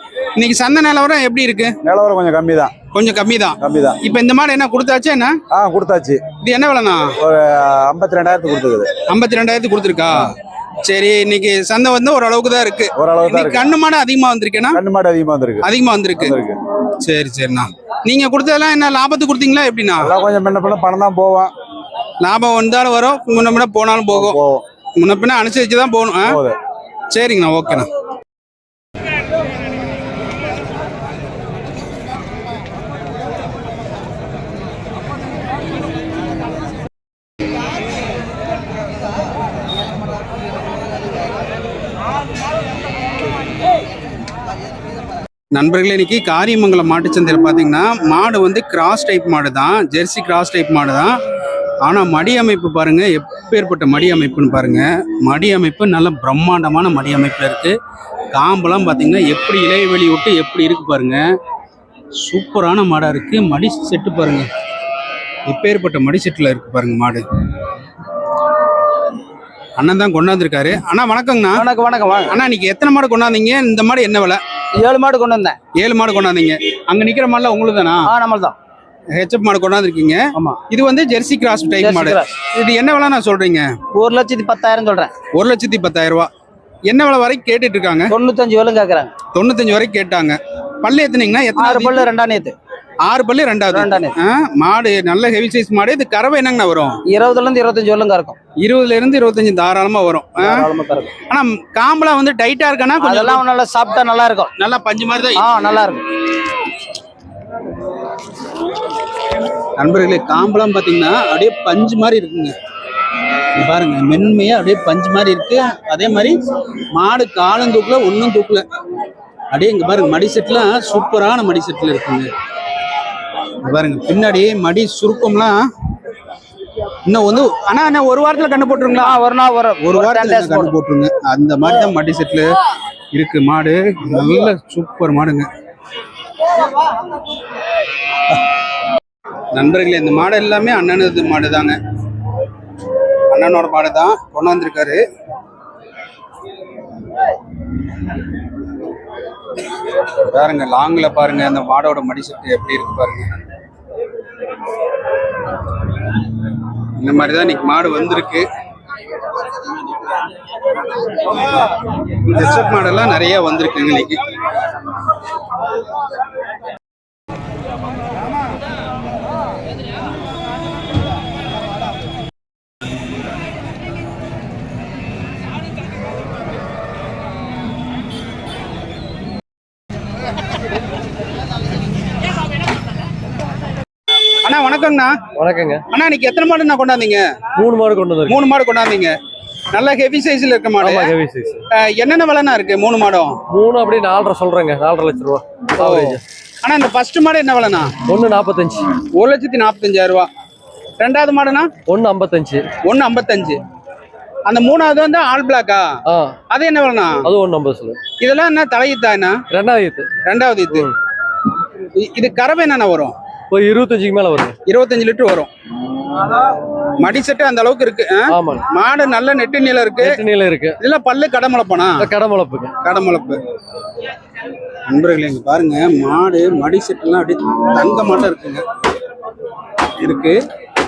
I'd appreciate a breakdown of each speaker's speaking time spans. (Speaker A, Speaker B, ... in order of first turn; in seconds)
Speaker A: 0.3-1.7, 2.9-5.3, 6.4-7.2, 9.1-10.3, 10.8-14.8, 15.6-16.4, 17.0-20.1, 22.2-24.4, 25.0-26.4, 27.1-27.9, 45.5-51.1, 51.8-57.7, 58.3-61.2, 62.2-64.5, 65.5-67.2, 69.8-71.7, 72.3-74.4, 75.8-78.1, 79.1-83.8, 85.3-86.3, 86.9-88.1, 89.3-92.1, 93.0-97.0, 98.6-100.7, 101.3-103.4, 104.6-105.4, 109.8-112.5, 113.5-116.3, 116.9-118.6, 119.5-122.3, 123.6-125.6, 127.0-129.2, 129.8-132.5, 133.1-135.5, 139.5-141.8, 143.3-145.0, 150.0-153.4, 157.0-158.4, 162.2-164.2, 184.4-185.2, 185.9-187.2, 188.3-189.1, 189.7-191.1, 191.7-193.4, 195.8-197.9, 199.0-200.3, 201.0-201.7, 202.8-203.6, 204.4-205.9, 206.5-207.3, 208.2-209.4, 210.2-210.9, 211.9-213.1, 214.7-215.5, 217.0-220.2, 220.8-222.1, 222.8-223.4, 224.9-228.6, 230.0-230.3
Speaker B: 1.8-2.7, 3.6-4.0, 5.5-6.2, 7.2-8.9, 13.0-13.7, 14.7-16.6, 20.0-21.5, 24.1-24.6, 26.2-26.6
Speaker C: 71.5-72.3, 74.8-75.6, 78.0-78.5, 81.8-82.2, 83.9-85.1, 88.1-89.1, 91.6-92.5, 93.7-94.1, 97.1-98.3, 100.5-101.1, 103.0-104.5, 105.3-106.0, 129.0-130.7
Speaker D: 185.3-185.8, 187.6-188.4, 190.8-191.6, 193.5-196.2, 198.0-198.9, 201.8-202.6, 206.1-206.3, 207.2-208.0, 209.5-210.1, 213.5-214.6, 218.3-218.6, 220.0-220.8, 222.0-222.7